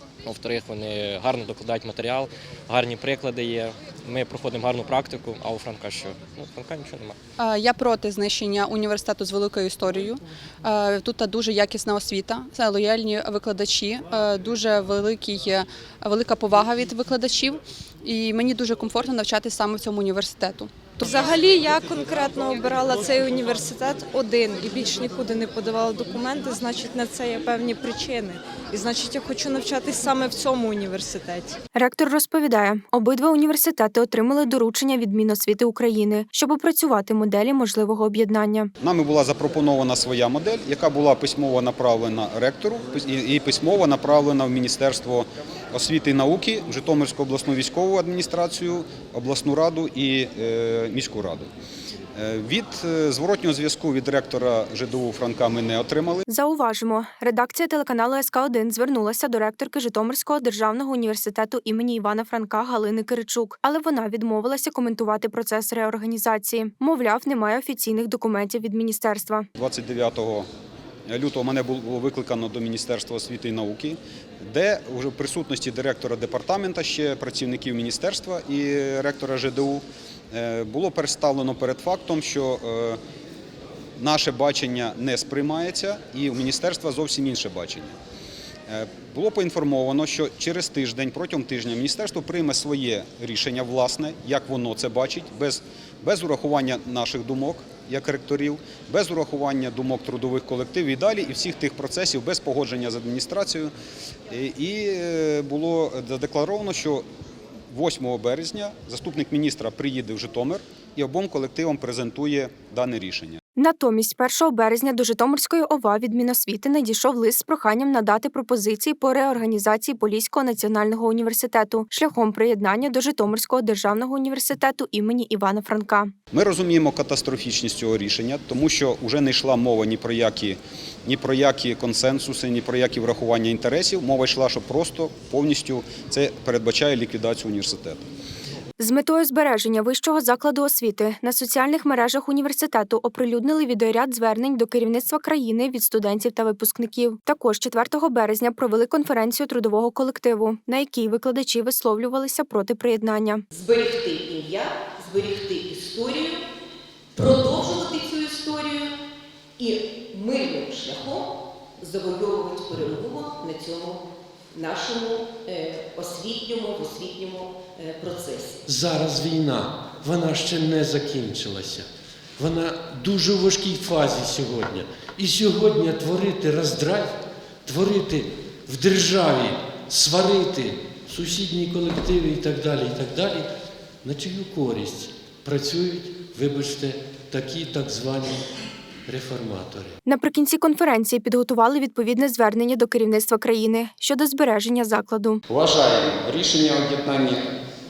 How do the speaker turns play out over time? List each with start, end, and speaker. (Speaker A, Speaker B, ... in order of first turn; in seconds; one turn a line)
Speaker A: 0.2-7.2
Speaker B: 7.4-21.1
Speaker C: 21.0-31.6
Speaker D: 31.8-38.7
Speaker E: 38.8-51.5
Speaker E: 52.1-56.2
Speaker D: 56.3-69.5
Speaker E: 69.5-70.5
Speaker E: 71.1-83.0
Speaker E: 84.0-88.0
Speaker E: 88.7-103.7
Speaker E: 104.3-107.0
Speaker E: 107.7-113.4
Speaker D: 113.6-126.1
Speaker E: 126.3-138.1
Speaker D: 138.8-153.4
Speaker F: 153.5-156.4
Speaker F: 157.1-159.0
Speaker F: 159.6-168.6
Speaker G: 168.7-171.8
Speaker G: 172.4-183.5
Speaker G: 184.0-188.4
Speaker G: 189.1-189.9
Speaker D: 190.1-195.4
Speaker H: 195.5-197.4